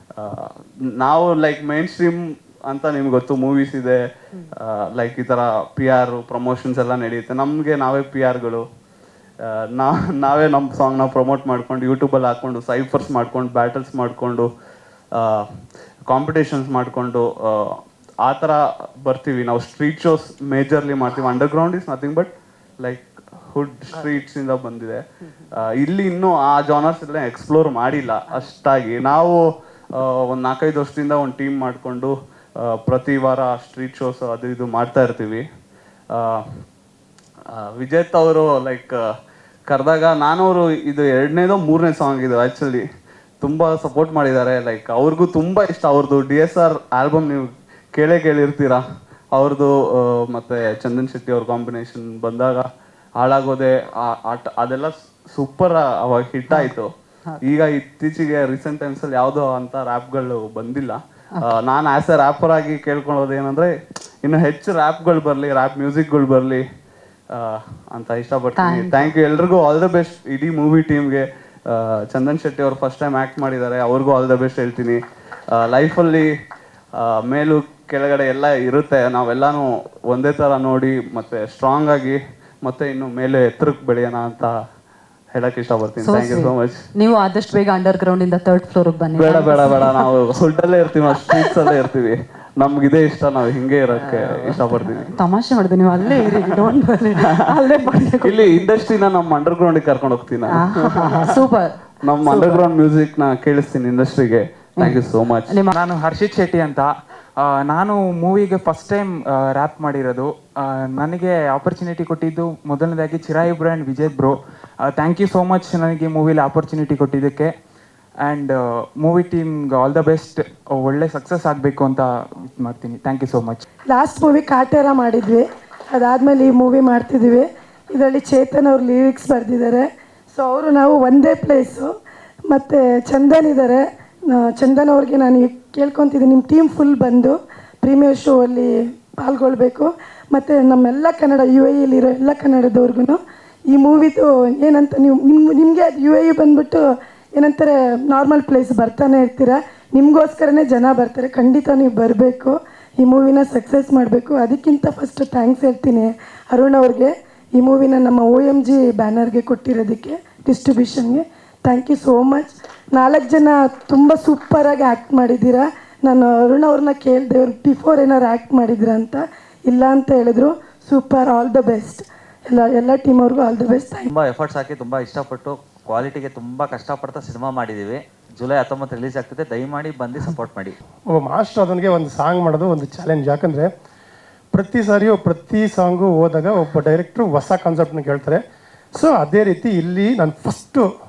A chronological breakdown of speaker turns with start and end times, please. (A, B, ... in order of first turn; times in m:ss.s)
0:00.2-0:08.6 A
0:09.4-0:14.5 A
0:15.1-0:29.4 A
0:23.9-0:24.2 B
0:29.9-0:35.4 A
0:36.1-0:36.6 A
0:37.5-0:39.0 A
0:39.7-0:42.8 A
0:43.4-0:48.8 A
0:49.3-0:52.7 A
0:53.2-0:56.9 A
0:57.4-1:06.6 A
1:07.3-1:15.0 A
1:08.6-1:09.1 B
1:15.5-1:16.3 A
1:16.9-1:24.5 A
1:25.3-1:26.9 A
1:26.0-1:30.1 B
1:29.1-1:35.1 A
1:31.2-1:31.7 B
1:34.0-1:38.8 B
1:38.2-1:41.4 A
1:40.5-1:42.6 B
1:42.0-1:45.5 A
1:44.8-1:45.7 B
1:45.7-1:46.9 C
1:47.4-1:57.5 C
1:58.2-2:03.6 C
2:03.9-2:11.9 D
2:12.5-2:23.2 D
2:23.7-2:26.8 D
2:27.4-2:54.1 D
2:54.1-3:00.8 E
3:01.1-3:03.7 F
3:04.5-3:08.4 F
3:09.0-3:10.8 F